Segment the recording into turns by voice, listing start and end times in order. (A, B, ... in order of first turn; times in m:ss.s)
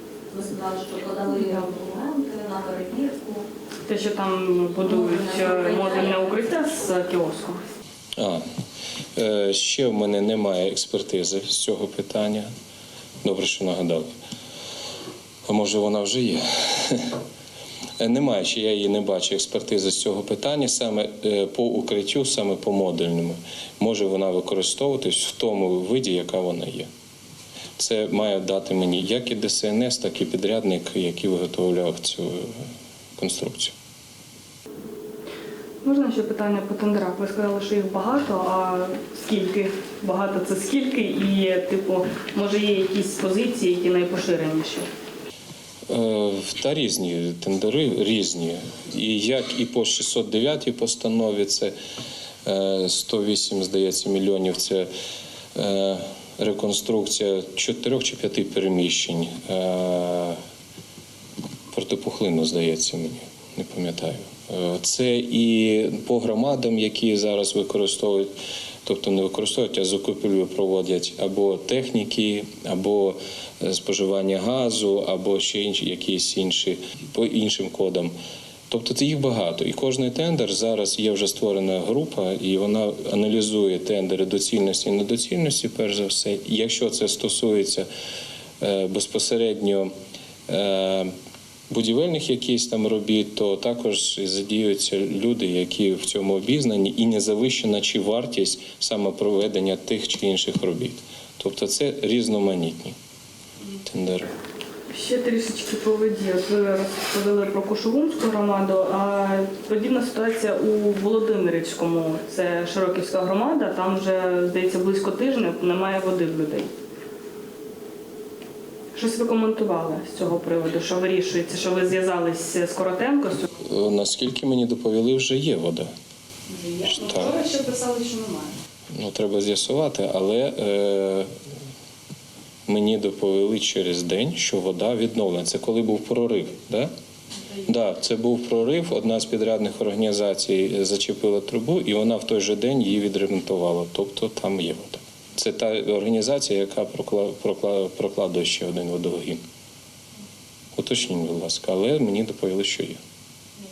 0:00.3-0:03.5 A
0:01.4-0:01.7 B
0:03.8-0:07.6 B
0:04.8-0:06.4 A
0:08.2-0:08.4 C
0:09.2-0:12.5 C
0:13.2-0:14.1 C
0:15.5-0:17.1 C
0:18.0-0:26.9 C
0:27.8-0:32.6 C
0:33.2-0:33.7 C
0:35.8-0:44.9 B
0:45.9-0:51.7 C
0:52.4-0:54.9 C
0:55.5-1:00.4 C
1:01.7-1:08.3 C
1:08.8-1:18.1 C
1:18.7-1:27.9 C
1:28.6-1:29.9 C
1:30.5-1:31.1 C
1:31.7-1:43.0 C
1:43.8-1:44.3 C
1:44.9-1:56.7 B
1:58.9-2:03.5 B
2:03.6-2:05.9 C
2:06.5-2:08.6 B
2:06.8-2:07.3 C
2:08.9-2:11.3 C
2:12.7-2:16.9 C
2:17.7-2:29.4 C
2:30.7-2:33.0 C